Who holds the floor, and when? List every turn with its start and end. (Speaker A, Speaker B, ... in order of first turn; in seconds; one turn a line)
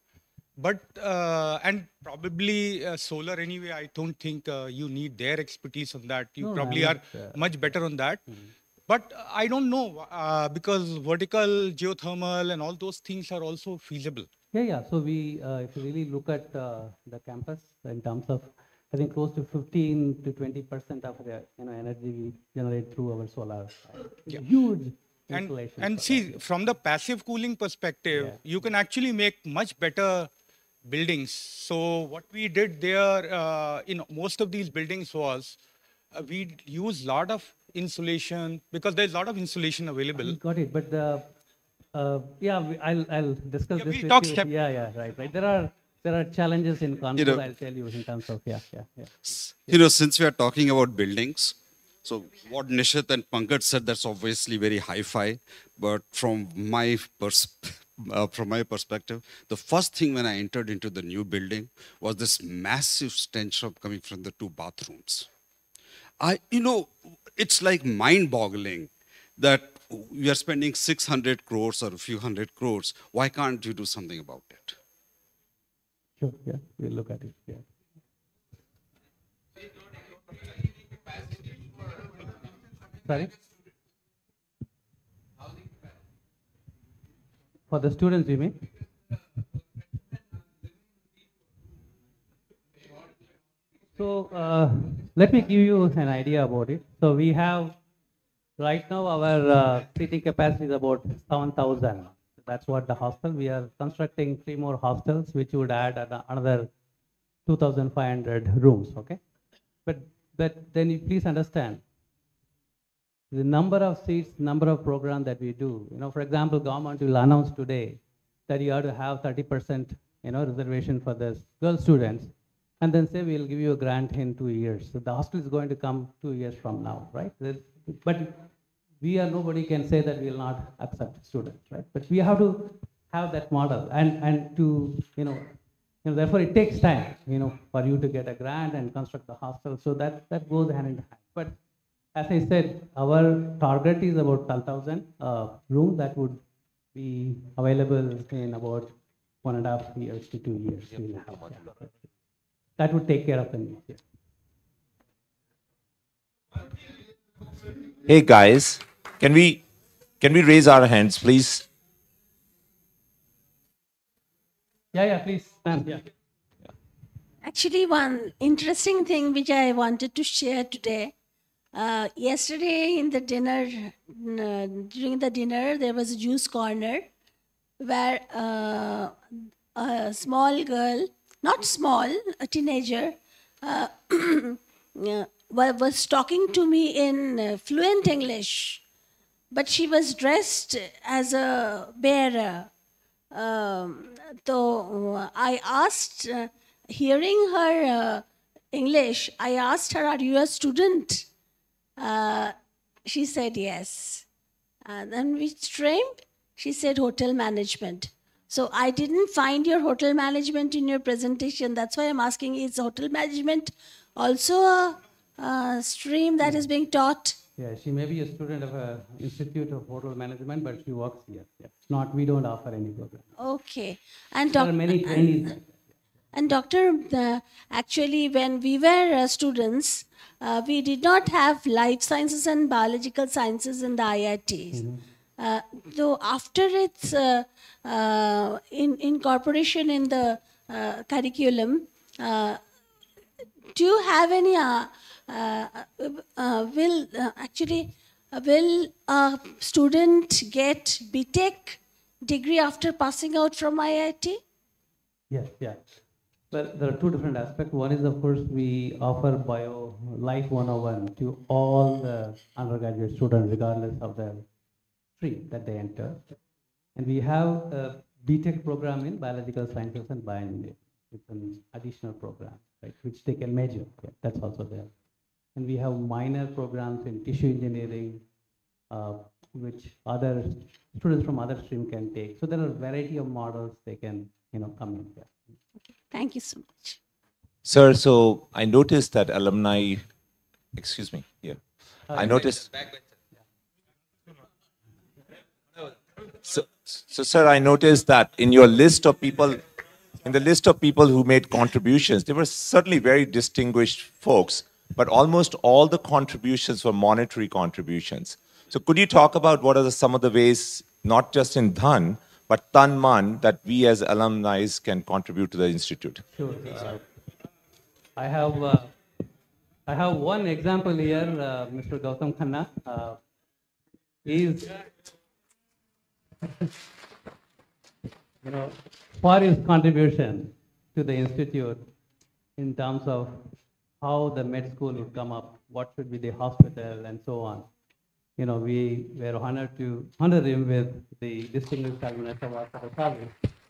Speaker A: 0.6-8.2
Speaker B: 6.4-7.7
Speaker A: 8.9-14.3
Speaker B: 14.5-26.3
Speaker A: 25.3-30.3
Speaker B: 28.1-28.4
Speaker A: 30.8-35.6
Speaker A: 36.1-40.4
Speaker B: 40.2-41.3
Speaker B: 41.9-49.1
Speaker A: 43.8-44.5
Speaker C: 47.2-47.5
Speaker C: 49.2-65.3
Speaker C: 66.2-74.8
Speaker B: 76.2-77.7
Speaker B: 83.0-83.3
Speaker B: 87.7-88.6
Speaker B: 93.9-97.8
Speaker B: 98.6-106.7
Speaker B: 107.5-109.2
Speaker B: 109.8-111.8
Speaker B: 113.3-128.5
Speaker B: 129.0-141.6
Speaker B: 142.1-146.4
Speaker B: 146.9-151.8
Speaker B: 152.8-154.0
Speaker D: 158.1-159.6
Speaker D: 160.2-161.7
Speaker B: 164.9-166.1
Speaker E: 167.4-171.1
Speaker E: 171.7-177.1
Speaker E: 177.8-179.2
Speaker E: 179.7-188.8
Speaker E: 189.5-192.7
Speaker E: 193.3-201.3
Speaker E: 202.0-202.5
Speaker E: 203.1-204.2
Speaker E: 204.8-217.4
Speaker B: 217.6-223.3
Speaker E: 223.4-225.4
Speaker B: 224.5-225.8
Speaker E: 226.3-234.8
Speaker B: 234.7-235.0
Speaker E: 235.4-242.6
Speaker E: 243.7-254.4
Speaker B: 255.3-264.4
Speaker B: 265.2-266.2
Speaker B: 266.9-274.9
Speaker B: 275.5-278.2
Speaker B: 278.9-285.4
Speaker E: 286.1-287.0
Speaker D: 287.6-290.1
Speaker D: 290.7-292.7
Speaker B: 292.1-292.4
Speaker D: 296.5-299.6
Speaker D: 300.2-316.2
Speaker B: 316.3-317.0
Speaker B: 318.1-318.9
Speaker B: 319.9-323.2
Speaker B: 324.2-324.8
Speaker B: 328.4-331.9
Speaker B: 332.6-337.7
Speaker B: 338.4-343.3